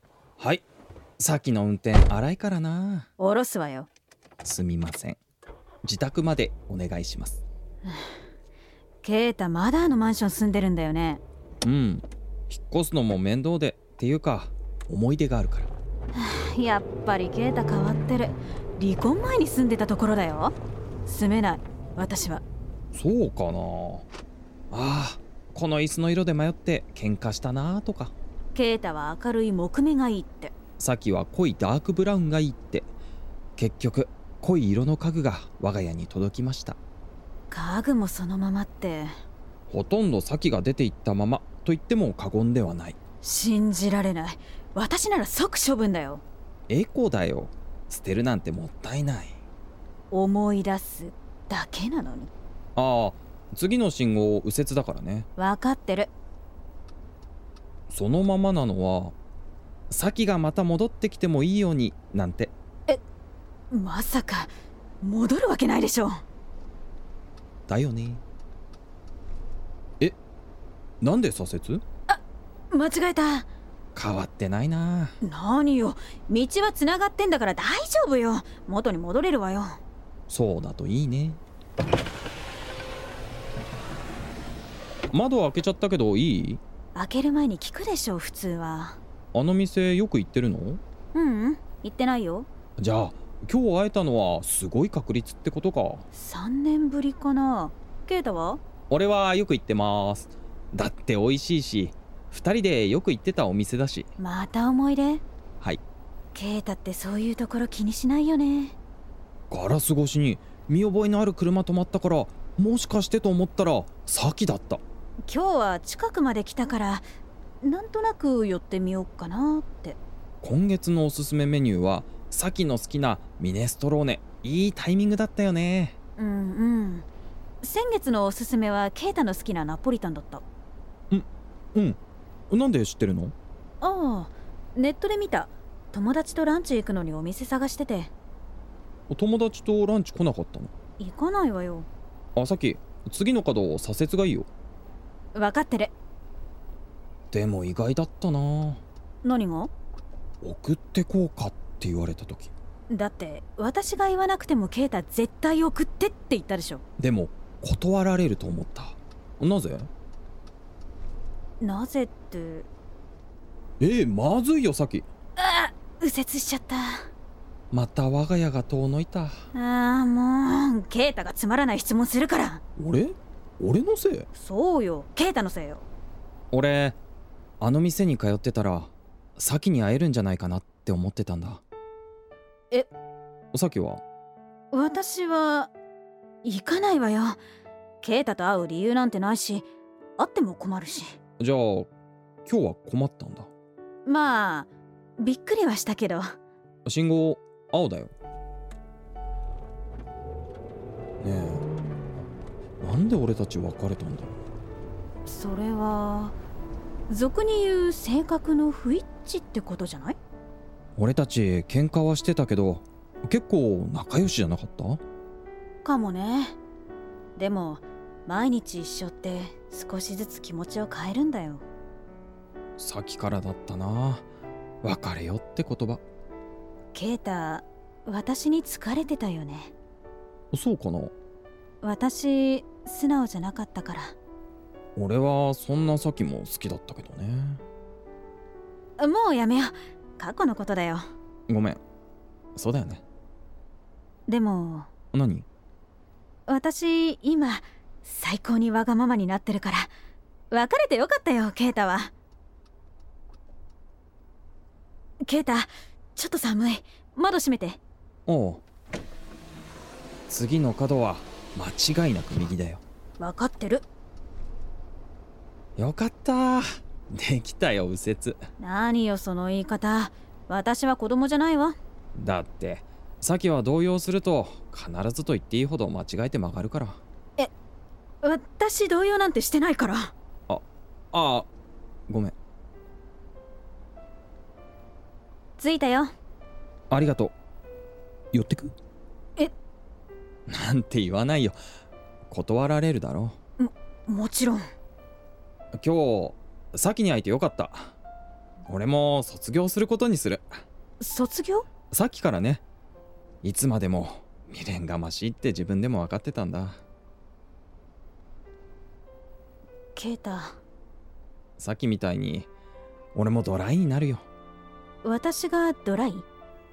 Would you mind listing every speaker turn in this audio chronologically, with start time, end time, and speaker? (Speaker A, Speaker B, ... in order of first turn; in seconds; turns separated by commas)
Speaker A: 0.4-0.7, Speaker A: 1.2-3.1, Speaker B: 3.2-3.9, Speaker A: 4.4-5.2, Speaker A: 5.8-7.4, Speaker B: 9.0-11.2, Speaker A: 11.6-15.7, Speaker B: 16.1-22.4, Speaker A: 22.9-24.1, Speaker A: 24.7-28.1, Speaker B: 28.5-30.5, Speaker A: 30.8-32.9, Speaker A: 33.6-36.8, Speaker B: 37.5-39.1, Speaker A: 39.7-43.0, Speaker B: 43.2-46.2, Speaker A: 46.7-49.4, Speaker B: 50.1-52.3, Speaker A: 52.8-55.3, Speaker B: 55.4-56.1, Speaker A: 57.9-59.2, Speaker A: 59.9-62.5, Speaker B: 63.7-64.5, Speaker B: 65.0-66.2, Speaker A: 67.7-68.2, Speaker A: 71.0-71.8, Speaker B: 72.1-73.5, Speaker A: 74.0-75.1, Speaker B: 75.2-79.8, Speaker A: 80.3-81.4, Speaker A: 85.1-86.6, Speaker B: 87.0-89.0, Speaker A: 89.3-90.8, Speaker B: 91.1-92.5, Speaker A: 92.8-96.0, Speaker B: 96.1-98.6, Speaker A: 98.9-104.1, Speaker B: 104.2-105.2, Speaker B: 106.3-108.8, Speaker A: 109.5-114.8, Speaker B: 115.3-117.0, Speaker B: 117.6-120.0, Speaker A: 120.4-126.0, Speaker B: 126.2-127.1, Speaker B: 127.6-130.4, Speaker A: 131.1-132.0, Speaker A: 132.5-133.3, Speaker B: 133.8-138.1, Speaker A: 139.1-140.7, Speaker B: 141.0-141.9, Speaker A: 142.4-144.5, Speaker B: 145.3-145.9, Speaker A: 147.3-148.8, Speaker B: 149.2-149.7, Speaker A: 150.4-152.5, Speaker B: 152.9-156.8, Speaker A: 157.0-159.9, Speaker B: 161.6-162.7, Speaker A: 163.8-165.1, Speaker B: 165.4-167.1, Speaker A: 167.7-169.4, Speaker B: 169.5-172.6, Speaker A: 172.8-174.3, Speaker B: 174.3-175.9, Speaker A: 176.5-177.0, Speaker A: 177.6-181.6, Speaker A: 183.5-184.0, Speaker B: 184.7-185.7, Speaker B: 186.4-187.4, Speaker B: 188.0-191.2, Speaker A: 191.4-191.9, Speaker A: 192.5-193.5, Speaker B: 194.1-196.3, Speaker A: 196.9-198.1, Speaker A: 201.2-201.7, Speaker A: 202.8-204.3, Speaker B: 205.2-206.4, Speaker B: 207.1-210.2, Speaker A: 211.0-215.0, Speaker B: 215.8-216.6, Speaker B: 217.4-221.6, Speaker A: 222.8-224.2, Speaker A: 224.8-226.0, Speaker B: 226.9-229.7, Speaker A: 230.5-231.1, Speaker B: 231.8-234.2, Speaker A: 235.0-237.6, Speaker B: 239.0-241.1, Speaker A: 241.5-241.8, Speaker A: 242.6-243.0, Speaker B: 244.3-244.9, Speaker A: 245.1-245.5, Speaker B: 246.5-249.9, Speaker B: 250.5-252.1, Speaker B: 255.3-257.8, Speaker A: 258.3-258.6, Speaker A: 260.3-262.8, Speaker B: 263.2-263.9, Speaker A: 265.8-268.4, Speaker B: 268.6-271.8, Speaker A: 272.1-277.0, Speaker B: 278.2-280.1, Speaker A: 280.5-281.5, Speaker A: 282.1-282.4, Speaker B: 285.6-286.1, Speaker A: 286.9-287.3, Speaker A: 288.3-288.7, Speaker A: 290.5-291.6, Speaker A: 292.3-293.4, Speaker B: 293.6-294.6, Speaker A: 295.8-298.0, Speaker A: 298.7-300.6, Speaker B: 301.0-301.7, Speaker A: 301.9-302.6, Speaker A: 303.4-306.8, Speaker B: 310.0-310.6, Speaker A: 311.6-312.5, Speaker A: 313.1-314.3, Speaker B: 315.0-316.3